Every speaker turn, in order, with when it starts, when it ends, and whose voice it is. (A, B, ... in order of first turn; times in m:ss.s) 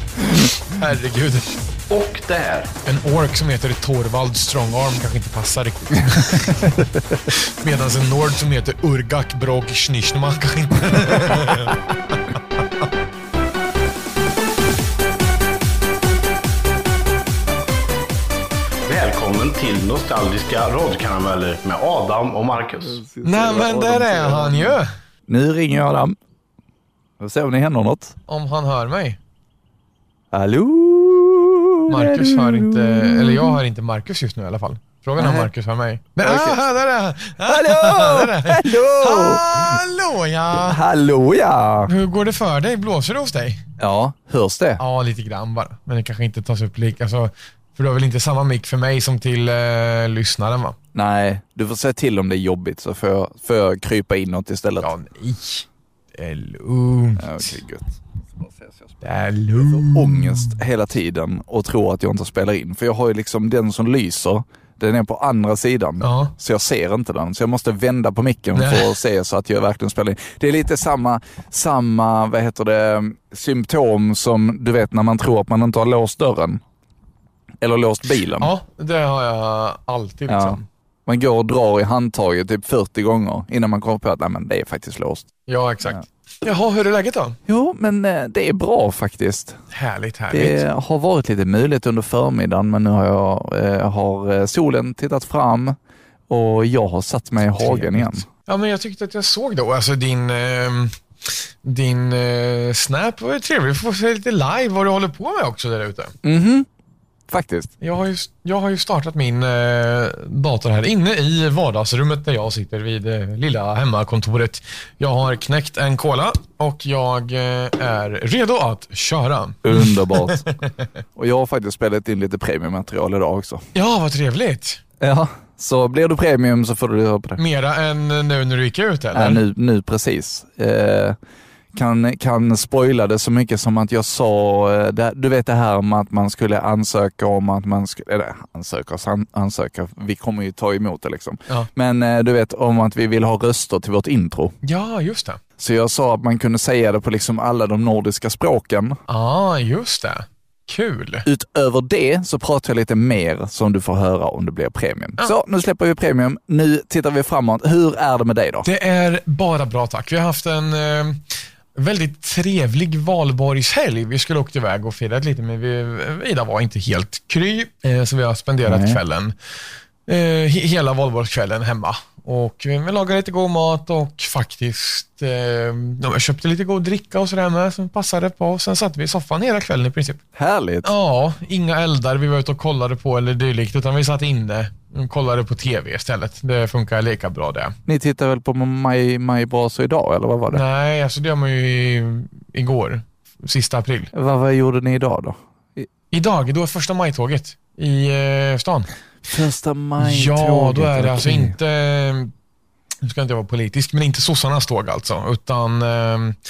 0:00.4-0:01.6 A
0:01.9-0:02.7 B
0:02.8-0:06.8 A
0:07.3-0:11.8 A
0:18.8-0:23.0 B
0:22.8-0:26.2 C
0:23.2-0:24.9 A
0:27.2-0:28.2 C
0:28.3-0:29.2 A
0:30.3-0:33.6 C
0:31.9-0:40.8 A
0:35.2-0:35.5 C
0:36.2-0:36.6 C
0:37.4-0:39.8 C
0:40.5-0:41.9 C
0:41.9-0:43.6 A
0:43.8-0:44.8 C
0:44.8-0:50.8 A
0:50.9-0:54.9 C
0:54.8-0:57.5 A
0:57.2-0:58.0 C
0:59.0-1:00.6 A
0:59.6-1:16.6 C
1:06.0-1:06.3 A
1:08.5-1:08.9 A
1:17.6-1:18.5 C
1:18.4-1:20.6 A
1:20.3-1:25.3 C
1:25.5-1:27.4 A
1:27.5-1:29.6 C
1:29.7-1:30.6 A
1:30.3-1:35.8 C
1:36.3-1:38.2 C
1:37.5-1:41.0 A
1:41.6-1:46.1 A
1:46.2-1:46.7 C
1:47.3-1:47.7 C
1:47.8-2:00.7 A
1:59.6-2:00.5 C
2:01.2-2:03.6 C
2:03.7-2:04.8 A
2:05.0-2:07.4 C
2:07.4-2:09.4 A
2:09.1-2:11.2 C
2:11.7-2:24.5 C
2:24.6-2:25.4 A
2:25.6-2:29.0 C
2:29.1-2:31.2 A
2:31.2-2:38.7 C
2:38.6-2:41.2 A
2:41.7-2:49.3 A
2:48.6-2:49.0 C
2:50.1-3:00.2 A
3:00.3-3:00.9 C
3:00.8-3:07.7 A
3:07.8-3:10.6 C
3:10.5-3:14.1 A
3:14.1-3:15.9 C
3:16.1-3:18.9 A
3:19.3-3:21.6 C
3:20.0-3:22.3 A
3:23.0-3:26.4 A